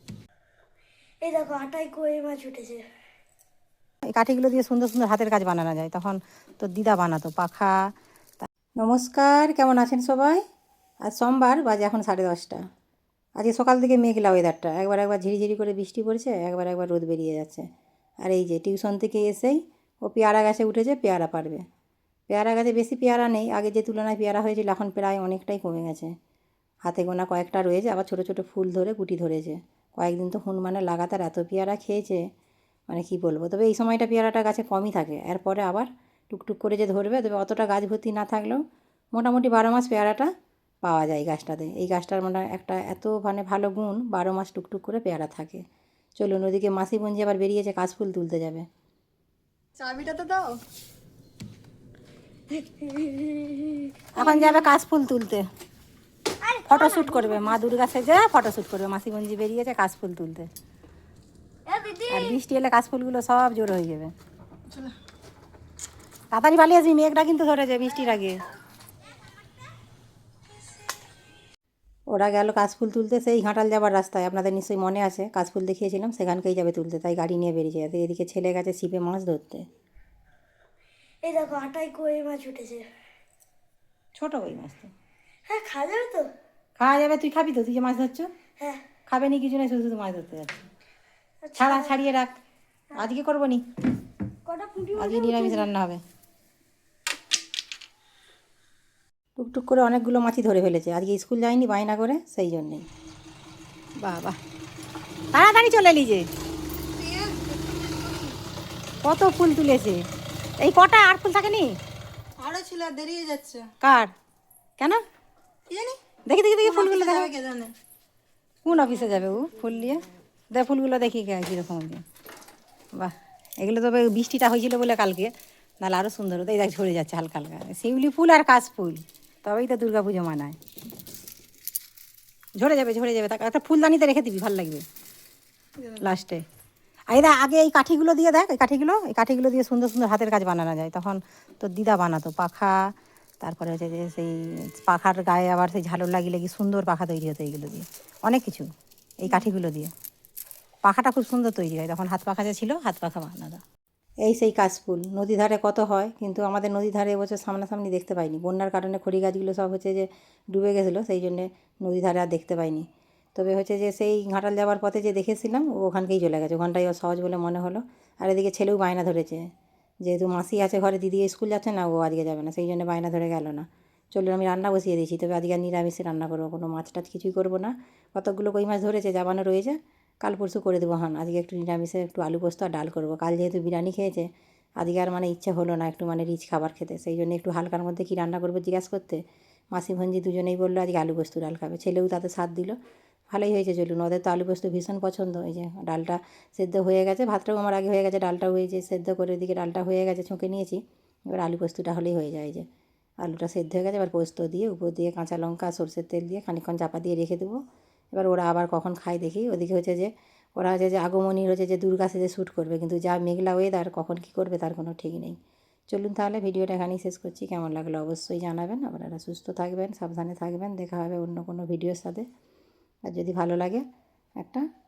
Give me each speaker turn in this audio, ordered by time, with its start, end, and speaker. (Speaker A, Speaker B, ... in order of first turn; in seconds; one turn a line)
Speaker A: 1.2-2.8
Speaker B: 4.1-7.8
Speaker B: 8.4-10.4
Speaker B: 11.1-12.6
Speaker B: 13.4-17.6
Speaker B: 18.2-21.6
Speaker B: 22.3-26.1
Speaker B: 26.9-32.2
Speaker B: 32.9-38.6
Speaker B: 39.1-40.3
Speaker B: 40.8-45.6
Speaker B: 46.2-48.6
Speaker A: 49.8-50.4
Speaker A: 52.5-54.5
Speaker B: 54.1-55.5
Speaker A: 56.4-57.6
Speaker B: 56.7-60.5
Speaker A: 61.7-62.4
Speaker B: 62.1-64.1
Speaker B: 66.3-68.4
Speaker B: 72.1-79.7
Speaker A: 81.2-82.8
Speaker B: 84.2-84.9
Speaker A: 85.5-86.3
Speaker B: 86.8-88.3
Speaker A: 88.6-88.9
Speaker B: 89.1-90.6
Speaker A: 91.4-92.0
Speaker B: 91.6-92.4
Speaker B: 93.0-93.6
Speaker A: 94.5-95.7
Speaker B: 95.0-96.0
Speaker B: 99.4-102.8
Speaker B: 104.0-104.3
Speaker B: 105.3-106.3
Speaker C: 107.0-108.1
Speaker B: 109.0-110.0
Speaker B: 110.6-111.7
Speaker C: 112.4-113.7
Speaker B: 113.8-114.1
Speaker B: 116.3-117.3
Speaker C: 116.7-117.7
Speaker B: 118.6-120.0
Speaker B: 120.5-122.0
Speaker B: 122.9-130.6
Speaker B: 132.6-134.8
Speaker B: 135.8-136.4
Speaker B: 137.1-142.8
Speaker B: 143.4-148.7
Speaker B: 149.2-149.9
Speaker B: 150.8-153.6
Speaker B: 154.2-169.5
Speaker B: 170.0-184.3
Speaker B: 184.8-192.8
Speaker B: 193.3-202.6
Speaker B: 203.2-207.6
Speaker B: 208.1-215.4
Speaker B: 215.9-222.2
Speaker B: 223.1-223.8
Speaker B: 224.4-224.6